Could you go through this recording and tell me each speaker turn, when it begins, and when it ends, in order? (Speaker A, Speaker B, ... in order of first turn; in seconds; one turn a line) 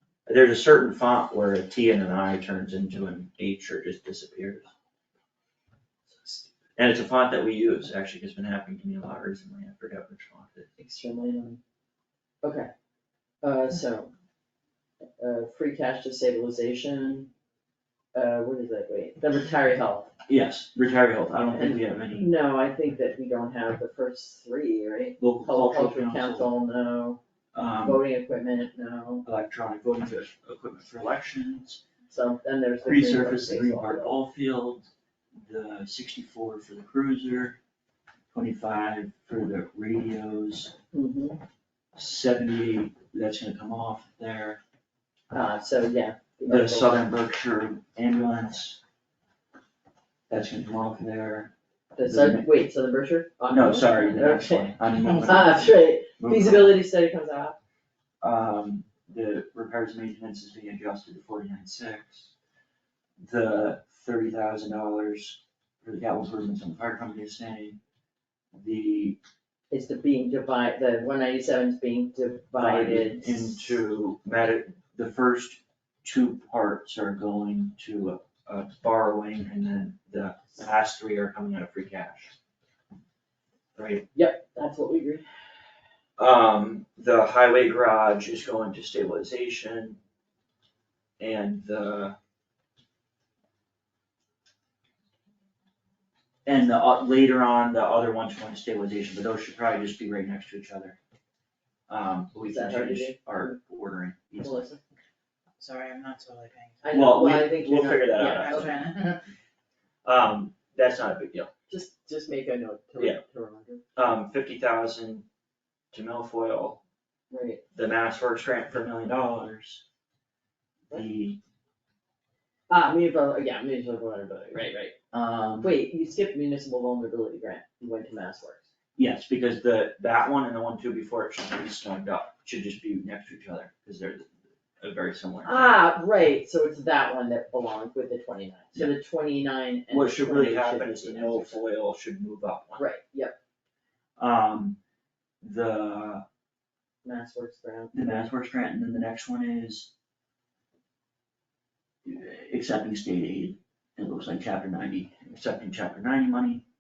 Speaker A: 0.3-4.7
Speaker A: 6.8-10.7
Speaker B: 10.8-11.6
Speaker B: 12.4-12.7
Speaker B: 13.4-14.1
Speaker B: 15.2-17.3
Speaker B: 18.1-20.1
Speaker A: 20.3-22.3
Speaker B: 21.5-27.2
Speaker A: 25.2-26.5
Speaker A: 27.5-28.0
Speaker B: 27.8-29.3
Speaker A: 29.2-31.8
Speaker B: 32.1-34.2
Speaker A: 32.9-34.9
Speaker A: 35.4-37.6
Speaker A: 38.3-40.7
Speaker B: 40.9-41.4
Speaker A: 41.9-44.6
Speaker B: 45.3-47.1
Speaker A: 46.5-48.8
Speaker A: 50.3-51.5
Speaker B: 52.0-57.6
Speaker A: 52.0-52.5
Speaker A: 53.5-56.8
Speaker A: 58.2-62.3
Speaker A: 63.2-67.8
Speaker A: 68.5-69.2
Speaker B: 69.7-73.7
Speaker A: 72.5-82.3
Speaker A: 83.8-84.1
Speaker B: 84.1-85.3
Speaker A: 86.2-90.0
Speaker A: 91.2-92.2
Speaker A: 96.5-101.0
Speaker A: 101.9-104.7
Speaker B: 102.4-103.6
Speaker B: 104.4-104.8
Speaker C: 105.6-107.2
Speaker B: 106.8-108.8
Speaker A: 106.9-108.7
Speaker C: 108.3-109.2
Speaker A: 110.0-111.5
Speaker B: 111.7-113.8
Speaker A: 114.0-115.3
Speaker A: 115.9-116.8
Speaker B: 117.3-117.6
Speaker A: 117.7-119.8
Speaker A: 120.9-121.4
Speaker B: 122.7-125.0
Speaker A: 125.1-125.7
Speaker B: 125.6-128.7
Speaker A: 129.0-134.3
Speaker A: 134.8-135.8
Speaker B: 135.4-141.6
Speaker A: 139.9-142.8
Speaker B: 142.8-143.4
Speaker A: 144.2-144.8
Speaker A: 145.4-146.2
Speaker B: 147.0-148.3
Speaker A: 147.9-149.9
Speaker A: 152.0-156.6